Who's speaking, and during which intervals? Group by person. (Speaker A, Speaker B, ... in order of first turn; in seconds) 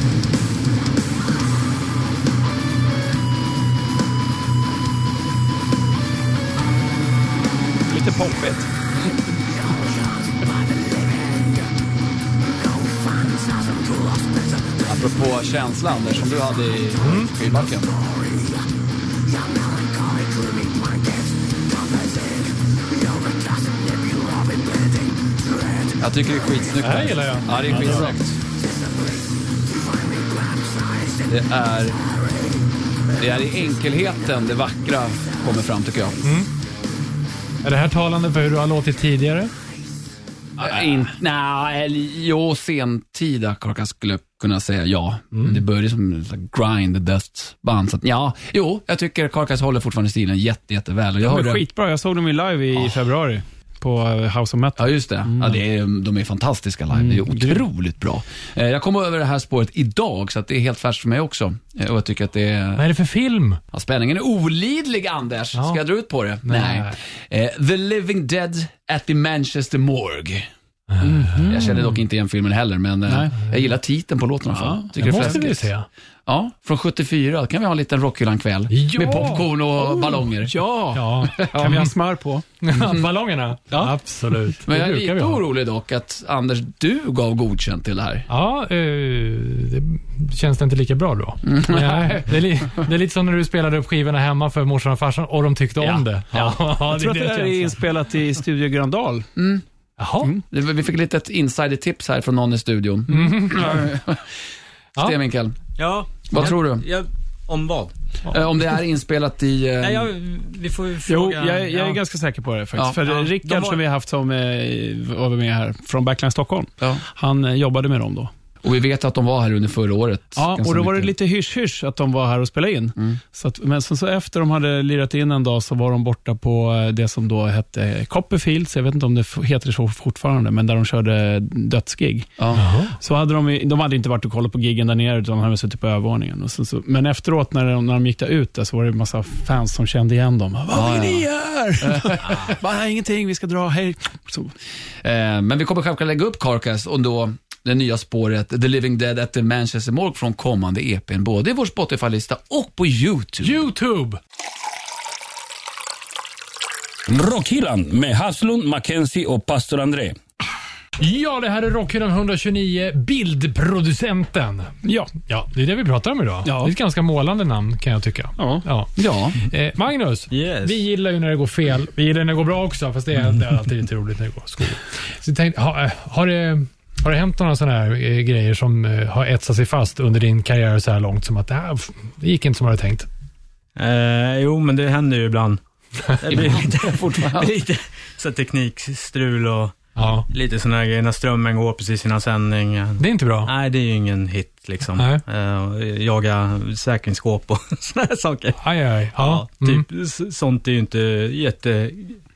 Speaker A: 7.9-8.7, 51.2-55.6, 56.9-57.6, 71.0-71.8, 73.1-73.3, 74.5-75.5, 79.1-82.4, 95.8-99.3, 111.1-118.3, 120.3-132.4, 132.9-144.5, 164.8-165.1, 166.4-166.7, 168.4-168.6
Speaker B: 14.8-17.9, 26.0-28.4, 31.2-32.0, 33.2-36.3, 40.6-51.6, 54.8-62.9, 63.7-70.5, 71.4-75.7, 76.2-80.6, 81.4-81.8, 82.7-83.1, 84.6-88.3, 91.4-92.9, 99.3-99.6, 100.5-104.3, 105.0-105.6, 106.3-106.8, 108.3-110.1, 118.6-121.1, 132.4-132.7, 140.7-142.4, 145.0-153.6, 168.9-169.4, 186.3-187.5
Speaker C: 17.0-17.6, 26.8-28.1, 36.2-36.5, 37.6-39.5, 45.3-45.6, 62.8-63.6, 65.5-65.8, 66.4-67.0, 70.9-71.9, 75.0-75.8, 78.7-79.4, 80.9-81.9, 82.6-85.4, 88.3-97.8, 100.0-100.3, 103.1-103.8, 132.5-132.9, 153.4-154.2, 161.0-183.1, 190.0-190.2, 193.0-193.5, 194.9-195.2, 198.6-199.8
Speaker D: 105.8-107.9, 109.8-112.0, 113.0-113.8, 170.3-170.8, 183.8-185.6, 186.1-198.6, 199.1-202.2
Speaker E: 157.1-160.2